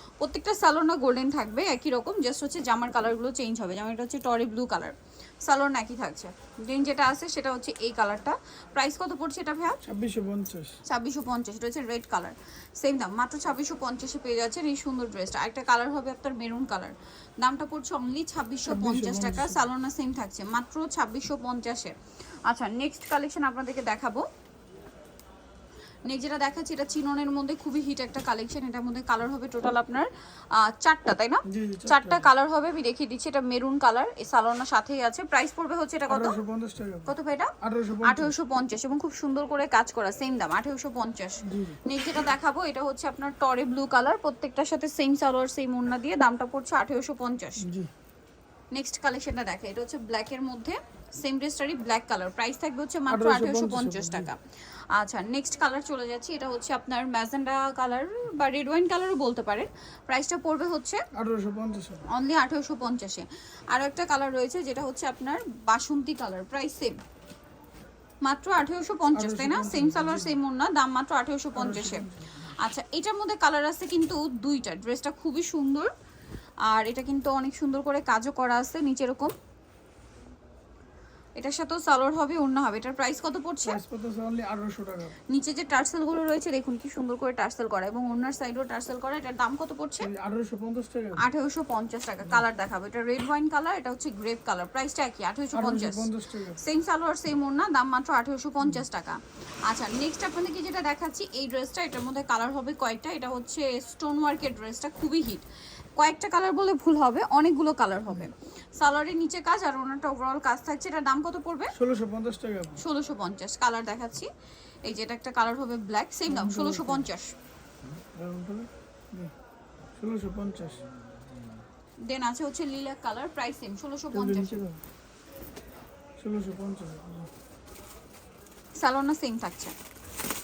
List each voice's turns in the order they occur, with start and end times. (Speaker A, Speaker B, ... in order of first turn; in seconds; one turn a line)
Speaker A: 0.2-4.9
Speaker A: 5.5-9.8
Speaker B: 9.8-10.8
Speaker A: 10.9-24.2
Speaker B: 18.6-19.6
Speaker A: 26.0-36.4
Speaker B: 31.5-32.3
Speaker B: 36.1-38.4
Speaker A: 37.1-47.7
Speaker B: 41.4-41.8
Speaker B: 47.6-47.9
Speaker A: 48.7-61.0
Speaker B: 53.1-54.3
Speaker B: 61.1-62.0
Speaker A: 62.1-67.0
Speaker A: 68.2-75.9
Speaker B: 69.1-70.4
Speaker B: 71.5-72.5
Speaker A: 76.7-79.3
Speaker A: 81.4-83.8
Speaker B: 83.6-85.2
Speaker A: 85.3-90.1
Speaker B: 90.0-91.2
Speaker A: 91.2-111.7
Speaker B: 95.5-96.6
Speaker B: 111.7-112.8
Speaker A: 112.8-114.3
Speaker A: 114.8-117.3
Speaker B: 116.3-117.1
Speaker B: 118.1-119.3
Speaker B: 120.0-120.8
Speaker A: 122.0-124.6
Speaker B: 124.1-124.8
Speaker B: 126.2-127.3
Speaker A: 128.8-129.8